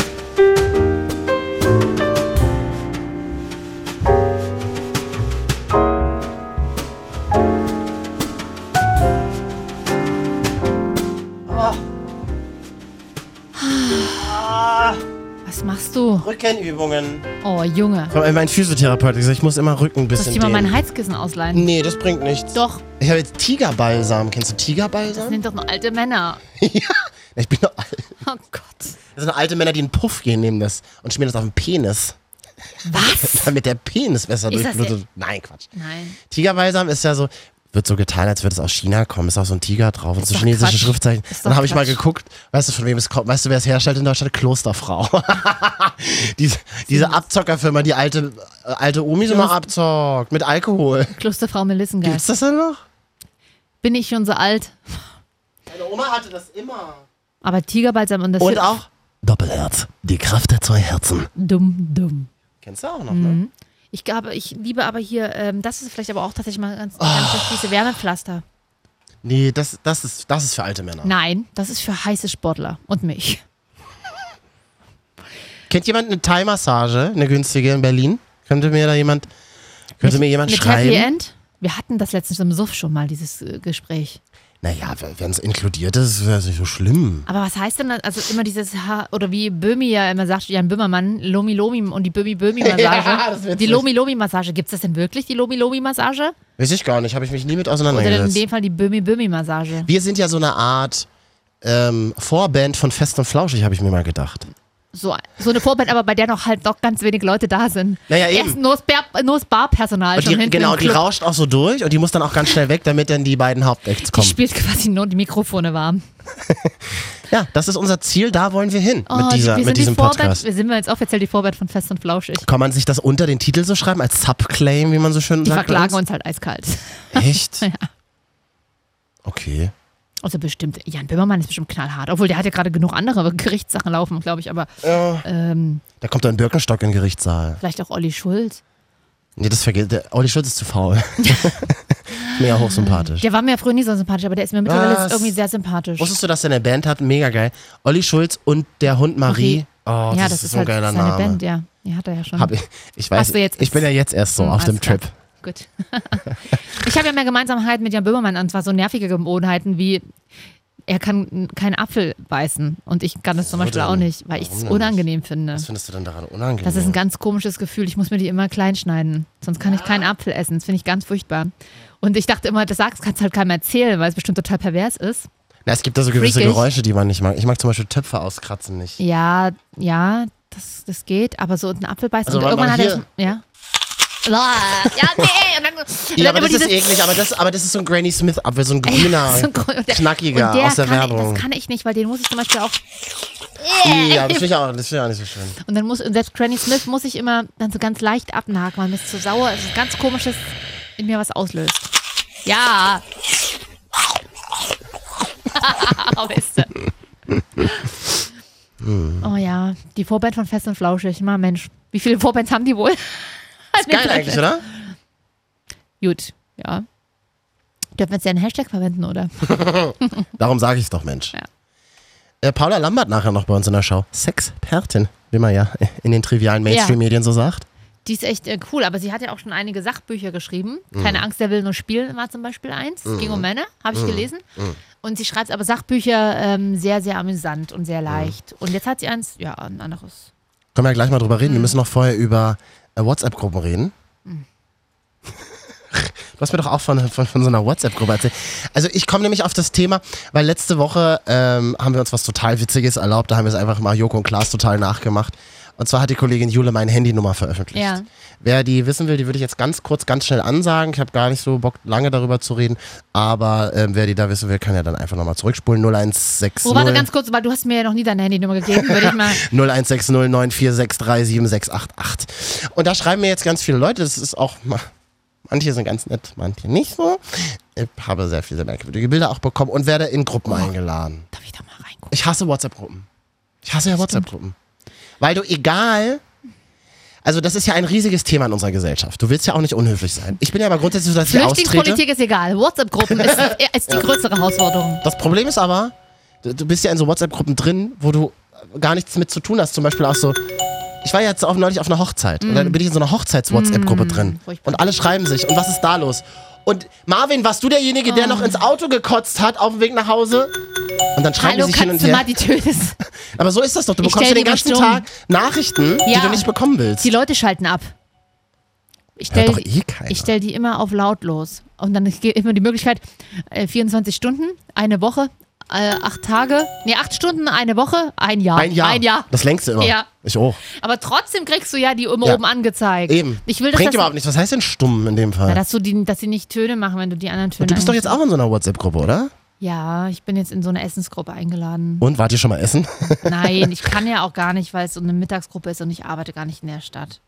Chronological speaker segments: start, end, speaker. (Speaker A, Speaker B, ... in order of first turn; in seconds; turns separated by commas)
Speaker A: 11.5-11.8, Speaker B: 13.6-14.4, Speaker A: 14.2-15.0, Speaker B: 15.4-16.3, Speaker A: 16.2-17.3, Speaker B: 17.4-18.1, Speaker A: 18.1-20.8, Speaker B: 20.1-21.7, Speaker A: 21.5-25.4, Speaker B: 22.5-22.8, Speaker B: 25.1-26.4, Speaker A: 26.6-28.1, Speaker B: 28.2-29.0, Speaker A: 29.1-32.1, Speaker B: 32.9-33.5, Speaker A: 32.9-35.7, Speaker B: 34.5-34.9, Speaker B: 35.7-36.2, Speaker A: 36.3-51.1, Speaker B: 40.3-42.0, Speaker B: 46.9-47.2, Speaker B: 49.3-49.6, Speaker B: 51.1-52.2, Speaker A: 52.0-52.8, Speaker B: 53.8-55.1, Speaker A: 55.7-57.0, Speaker B: 57.4-58.7, Speaker A: 58.4-61.3, Speaker B: 61.4-62.3, Speaker A: 62.6-63.4, Speaker B: 63.1-68.4, Speaker A: 67.0-67.6, Speaker A: 69.2-71.1, Speaker B: 71.0-73.4, Speaker A: 75.7-79.3, Speaker A: 80.0-81.1, Speaker B: 80.0-84.2, Speaker A: 84.6-87.3, Speaker B: 87.3-96.3, Speaker A: 92.6-93.8, Speaker A: 96.6-98.4, Speaker B: 97.9-99.9, Speaker A: 99.8-101.1, Speaker A: 101.6-104.5, Speaker B: 104.9-111.0, Speaker A: 108.1-108.6, Speaker A: 110.2-114.4, Speaker B: 114.1-116.0, Speaker A: 116.5-116.7, Speaker A: 117.3-120.4, Speaker B: 119.1-122.5, Speaker A: 122.4-126.0, Speaker B: 125.4-127.9, Speaker A: 127.1-127.7, Speaker A: 129.2-129.7, Speaker B: 130.2-135.8, Speaker A: 134.8-135.2, Speaker A: 136.0-137.6, Speaker B: 137.6-138.6, Speaker A: 139.4-143.2, Speaker B: 141.2-141.6, Speaker B: 142.1-146.1, Speaker A: 144.6-145.3, Speaker A: 146.0-151.4, Speaker B: 149.3-152.5, Speaker A: 152.4-155.1, Speaker B: 153.2-153.8, Speaker B: 154.4-160.1, Speaker B: 160.9-165.7, Speaker A: 163.4-165.0, Speaker A: 165.5-167.0, Speaker B: 166.6-175.3, Speaker A: 169.6-170.1, Speaker A: 175.7-179.0, Speaker B: 176.1-176.7, Speaker B: 179.0-183.4, Speaker A: 182.2-183.0, Speaker B: 184.2-186.9, Speaker A: 186.2-191.4, Speaker B: 188.8-192.8, Speaker B: 193.6-194.5, Speaker A: 193.8-195.6, Speaker B: 195.7-200.4, Speaker B: 201.0-201.9, Speaker B: 202.4-203.0, Speaker B: 205.5-206.8, Speaker A: 208.8-209.3, Speaker B: 209.2-214.7, Speaker A: 213.8-214.6, Speaker B: 216.0-216.8, Speaker B: 218.0-219.5, Speaker A: 219.5-221.3, Speaker A: 222.4-227.7, Speaker B: 226.7-227.0, Speaker B: 228.0-234.4, Speaker A: 230.9-231.2, Speaker A: 233.1-234.8, Speaker B: 235.0-240.3, Speaker A: 238.1-238.3, Speaker A: 240.7-243.9, Speaker B: 241.4-241.7, Speaker A: 245.9-267.1, Speaker B: 257.7-258.1, Speaker B: 266.6-269.5, Speaker A: 268.7-274.9, Speaker A: 275.5-281.3, Speaker B: 281.3-282.1, Speaker A: 282.1-283.1, Speaker A: 283.6-284.5, Speaker B: 284.0-284.2, Speaker A: 285.2-286.2, Speaker A: 287.2-292.0, Speaker B: 291.3-295.0, Speaker A: 293.1-294.0, Speaker A: 295.0-300.4, Speaker A: 301.0-310.6, Speaker B: 302.4-302.8, Speaker B: 303.5-304.9, Speaker B: 308.1-308.6, Speaker A: 311.1-312.2, Speaker B: 311.4-313.0, Speaker A: 313.3-317.1, Speaker B: 314.0-315.1, Speaker B: 316.1-316.5, Speaker B: 317.0-317.9, Speaker B: 319.2-330.1, Speaker A: 319.3-320.3, Speaker A: 328.5-330.6, Speaker B: 330.7-334.1, Speaker A: 333.1-335.6, Speaker B: 335.5-338.1, Speaker A: 337.6-339.3, Speaker B: 339.6-342.0, Speaker A: 342.0-343.8, Speaker B: 343.2-347.2